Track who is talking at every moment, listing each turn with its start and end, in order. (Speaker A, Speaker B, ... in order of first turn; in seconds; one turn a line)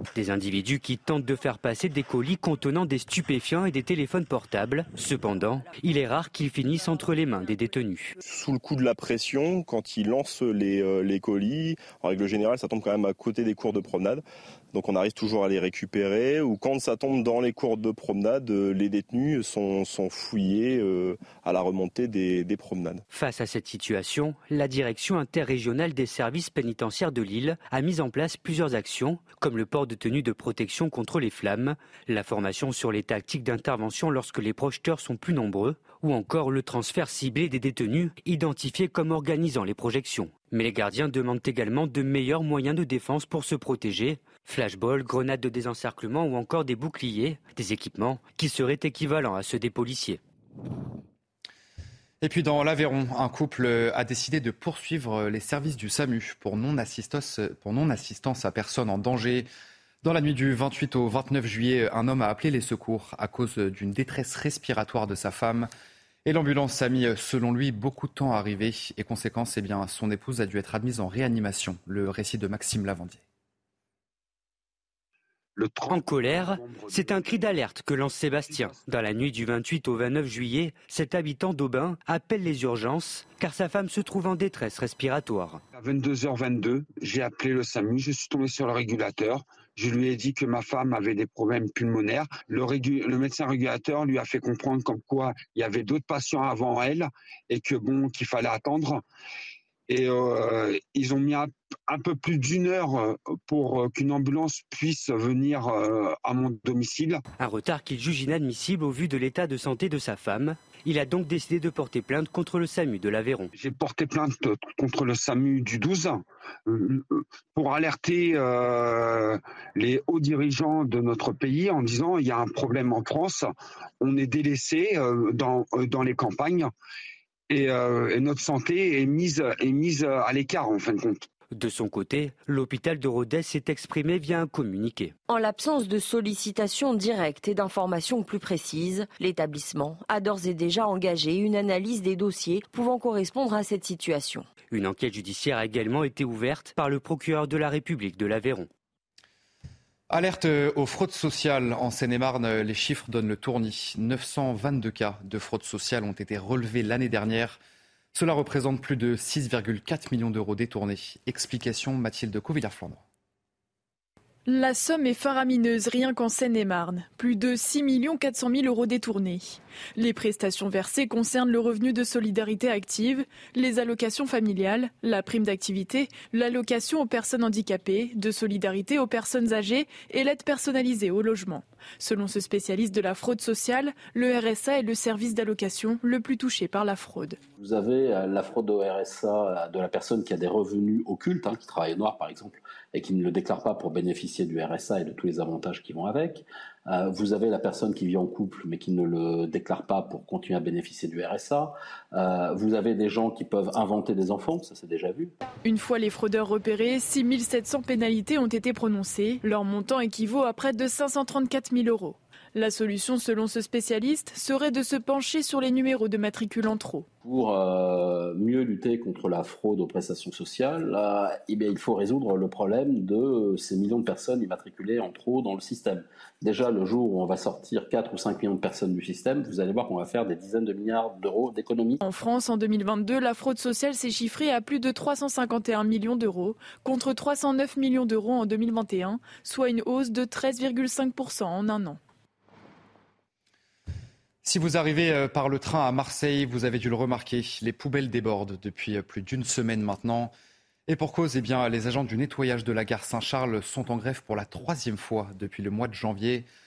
Speaker A: 0.1-8.2
Speaker B: 8.2-23.0
Speaker A: 23.1-50.2
Speaker C: 52.2-59.5
Speaker C: 60.0-65.7
Speaker C: 66.2-73.2
Speaker D: 75.6-77.1
Speaker A: 75.9-85.6
Speaker D: 85.8-99.0
Speaker D: 99.9-107.2
Speaker A: 107.4-113.5
Speaker D: 113.6-123.5
Speaker D: 124.0-126.7
Speaker D: 127.5-131.3
Speaker A: 131.5-135.1
Speaker E: 135.3-144.5
Speaker A: 144.7-148.7
Speaker C: 150.1-157.6
Speaker C: 158.1-163.0
Speaker F: 164.5-187.4
Speaker G: 187.6-205.3
Speaker F: 205.7-217.1
Speaker G: 217.3-232.0
Speaker F: 232.0-242.0
Speaker C: 244.4-250.3
Speaker C: 250.9-256.5